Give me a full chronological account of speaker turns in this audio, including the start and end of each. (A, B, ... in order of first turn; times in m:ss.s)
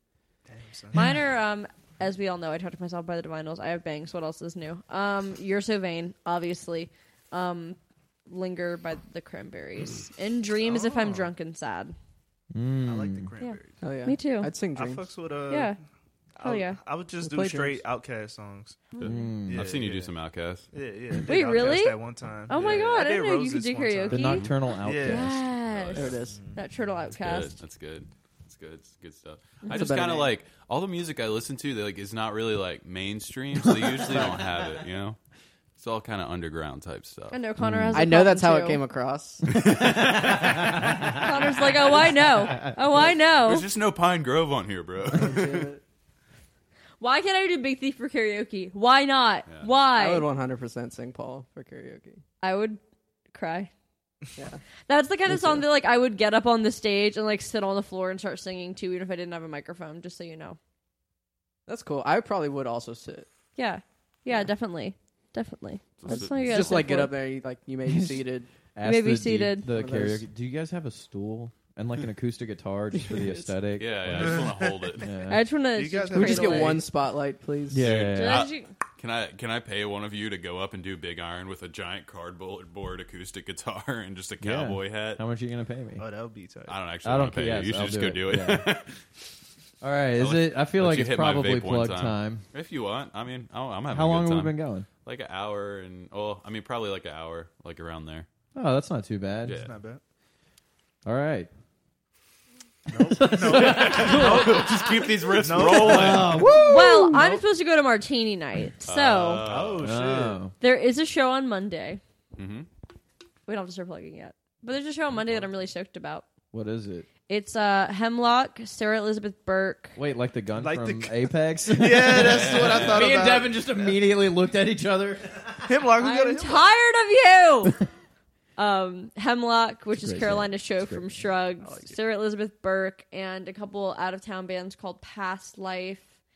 0:00.5-0:01.1 A
0:00.9-0:11.9 B
0:10.6-0:11.3 A
0:12.5-0:13.3 C
0:12.8-0:13.8 A
0:13.4-0:14.5 B
0:13.8-0:15.1 D
0:14.7-0:15.8 A
0:15.5-0:15.8 B
0:16.4-0:18.9 A
0:16.4-0:16.8 B
0:17.2-0:17.8 D
0:18.9-0:19.3 B
0:19.0-0:20.7 E
0:19.0-0:19.7 C
0:19.5-0:20.1 A
0:20.7-0:25.4 A
0:21.3-0:27.6 B
0:24.1-0:25.4 C
0:24.3-0:24.6 E
0:25.6-0:26.2 E
0:25.9-0:26.4 D
0:26.1-0:26.6 A
0:27.2-0:35.2 E
0:29.7-0:30.3 D
0:33.7-0:34.6 C
0:35.8-0:37.4 E
0:37.3-0:38.8 B
0:37.6-0:38.0 C
0:37.9-0:39.5 D
0:39.5-0:42.8 C
0:39.6-0:40.6 E
0:41.1-0:43.6 B
0:43.4-0:45.7 E
0:45.1-0:45.8 D
0:47.0-0:50.3 B
0:49.9-0:52.2 D
0:52.4-0:52.8 B
0:53.3-0:53.7 B
0:54.9-1:00.6 B
0:55.3-0:55.7 D
1:01.7-1:03.3 D
1:03.6-1:07.1 B
1:06.0-1:06.9 E
1:06.1-1:08.5 D
1:07.8-1:15.4 C
1:08.8-1:09.7 B
1:09.7-1:10.2 D
1:13.7-1:15.1 E
1:14.1-1:15.0 A
1:15.3-1:16.8 B
1:15.7-1:16.8 A
1:16.1-1:17.8 D
1:17.7-1:18.5 C
1:17.8-1:25.2 E
1:18.1-1:18.7 B
1:24.4-1:26.0 C
1:26.0-1:26.8 A
1:26.7-1:29.0 E
1:27.0-1:28.7 C
1:29.8-1:32.4 C
1:30.2-1:38.3 E
1:33.9-1:34.9 C
1:38.5-1:39.6 C
1:39.4-1:39.7 E
1:39.5-1:40.0 A
1:41.0-1:41.5 C
1:42.9-1:44.8 A
1:42.9-1:47.4 C
1:43.3-1:46.4 E
1:45.3-1:46.4 A
1:46.5-1:49.4 B
1:48.8-1:50.0 E
1:49.4-1:50.4 A
1:49.8-1:50.5 C
1:50.6-1:52.0 B
1:52.4-1:52.7 E
1:53.5-1:56.2 B
1:56.5-1:57.1 C
1:57.3-2:00.0 B
2:00.0-2:05.8 C
2:00.5-2:03.9 A
2:02.1-2:03.2 E
2:05.6-2:06.7 A
2:06.0-2:07.8 B
2:08.6-2:16.1 B
2:10.0-2:11.2 C